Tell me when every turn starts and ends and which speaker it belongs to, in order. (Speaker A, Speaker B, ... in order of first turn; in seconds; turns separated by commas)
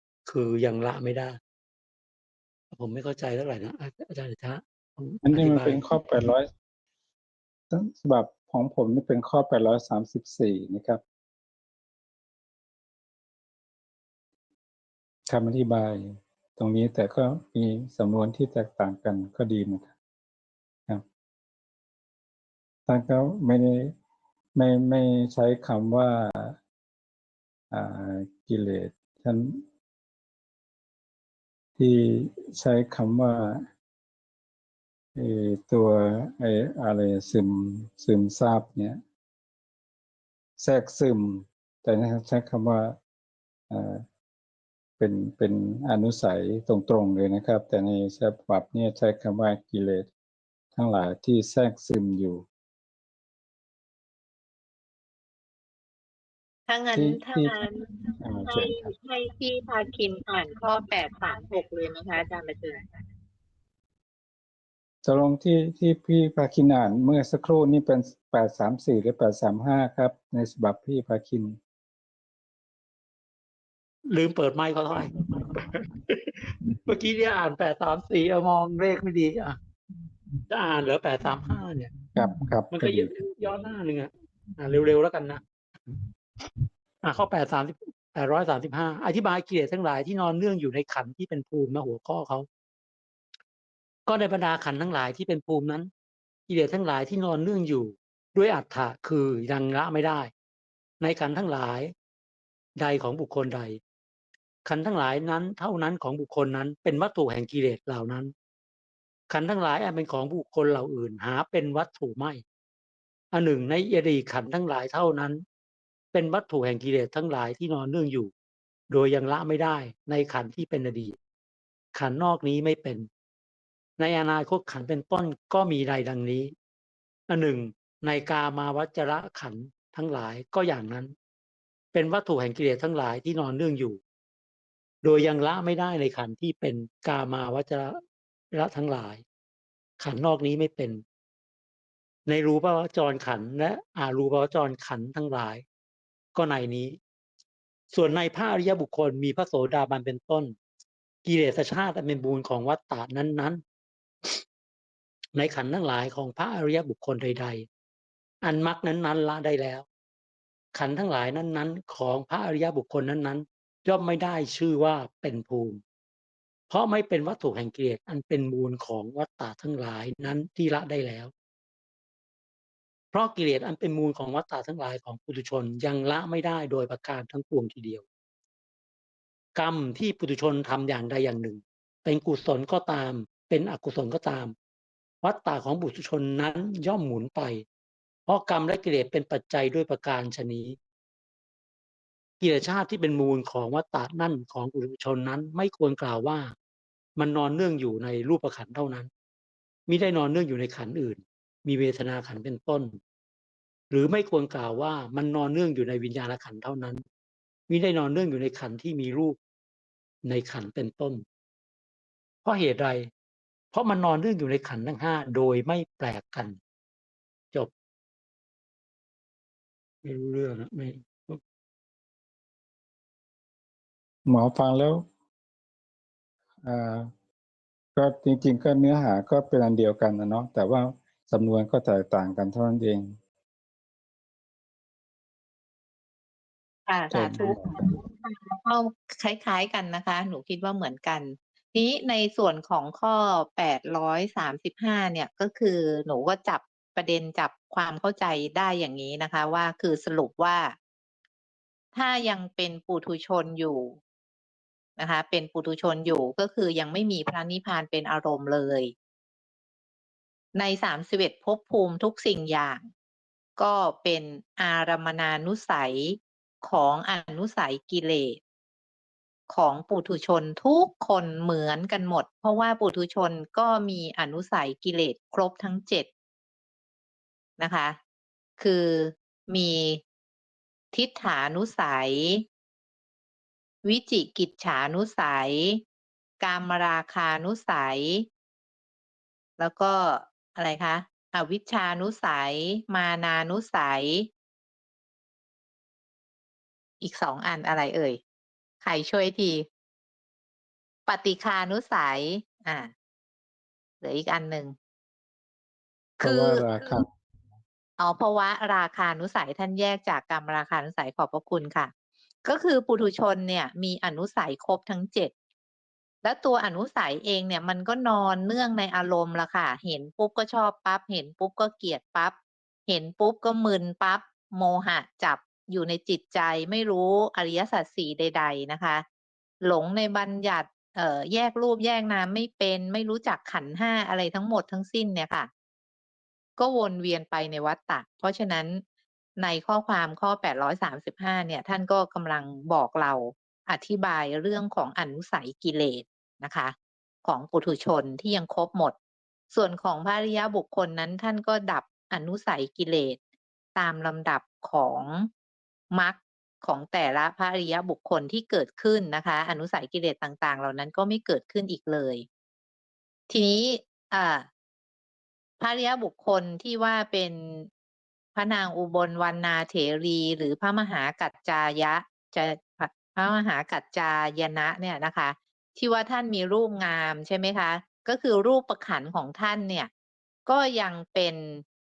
Speaker A: 0.3-1.4, Speaker A: 2.7-5.8, Speaker B: 5.2-6.5, Speaker B: 7.7-11.0, Speaker B: 15.3-19.9, Speaker B: 22.9-23.9, Speaker B: 24.6-26.6, Speaker B: 27.7-29.6, Speaker B: 31.8-33.7, Speaker B: 35.1-39.0, Speaker B: 40.6-43.0, Speaker B: 43.7-44.0, Speaker B: 45.0-50.1, Speaker B: 50.8-52.5, Speaker C: 56.7-57.9, Speaker B: 57.0-57.6, Speaker B: 58.2-58.9, Speaker C: 58.4-62.9, Speaker B: 65.0-71.6, Speaker A: 74.1-79.6, Speaker A: 80.5-82.0, Speaker B: 82.2-83.1, Speaker A: 82.7-86.0, Speaker A: 87.0-92.5, Speaker A: 94.1-95.9, Speaker A: 96.5-100.3, Speaker A: 101.0-101.9, Speaker A: 102.8-103.8, Speaker A: 104.7-108.3, Speaker A: 109.3-112.4, Speaker A: 113.3-115.4, Speaker A: 116.1-118.3, Speaker A: 118.9-121.2, Speaker A: 121.9-123.1, Speaker A: 124.0-126.5, Speaker A: 127.3-131.2, Speaker A: 131.9-134.0, Speaker A: 135.0-138.0, Speaker A: 138.5-139.2, Speaker A: 140.0-141.0, Speaker A: 142.3-145.7, Speaker A: 146.3-147.0, Speaker A: 147.9-150.6, Speaker A: 151.2-153.6, Speaker A: 155.3-157.7, Speaker A: 158.4-159.9, Speaker A: 160.7-165.8, Speaker A: 166.7-171.3, Speaker A: 173.1-178.1, Speaker A: 179.6-184.6, Speaker A: 185.2-187.7, Speaker A: 188.3-190.8, Speaker A: 192.4-196.6, Speaker A: 197.2-199.1, Speaker A: 199.9-203.0, Speaker A: 203.9-207.0, Speaker A: 207.7-209.4, Speaker A: 210.2-211.2, Speaker A: 212.4-213.1, Speaker A: 213.7-216.6, Speaker A: 220.0-221.4, Speaker B: 224.3-225.1, Speaker B: 226.6-227.1, Speaker B: 228.0-233.2, Speaker C: 236.9-250.8, Speaker B: 237.1-237.9, Speaker C: 251.9-254.0, Speaker C: 255.0-258.9, Speaker C: 260.6-262.9, Speaker C: 263.6-268.4, Speaker C: 269.5-276.1, Speaker C: 277.6-278.0, Speaker C: 278.6-280.0, Speaker C: 280.9-282.4, Speaker C: 283.8-285.8, Speaker C: 286.4-288.3, Speaker C: 289.6-294.3, Speaker C: 297.0-298.2, Speaker C: 298.8-299.7, Speaker C: 301.1-302.9, Speaker C: 304.0-304.8, Speaker B: 306.2-307.1, Speaker C: 306.2-307.0, Speaker C: 308.0-311.9, Speaker C: 312.4-315.3, Speaker C: 316.2-322.4, Speaker C: 322.9-329.1, Speaker C: 329.6-335.5, Speaker C: 336.6-338.8, Speaker C: 339.4-348.9, Speaker C: 349.5-353.2, Speaker C: 353.8-355.3, Speaker C: 355.9-362.3, Speaker C: 363.3-364.5, Speaker C: 365.6-367.7, Speaker C: 368.4-379.9, Speaker C: 380.5-381.6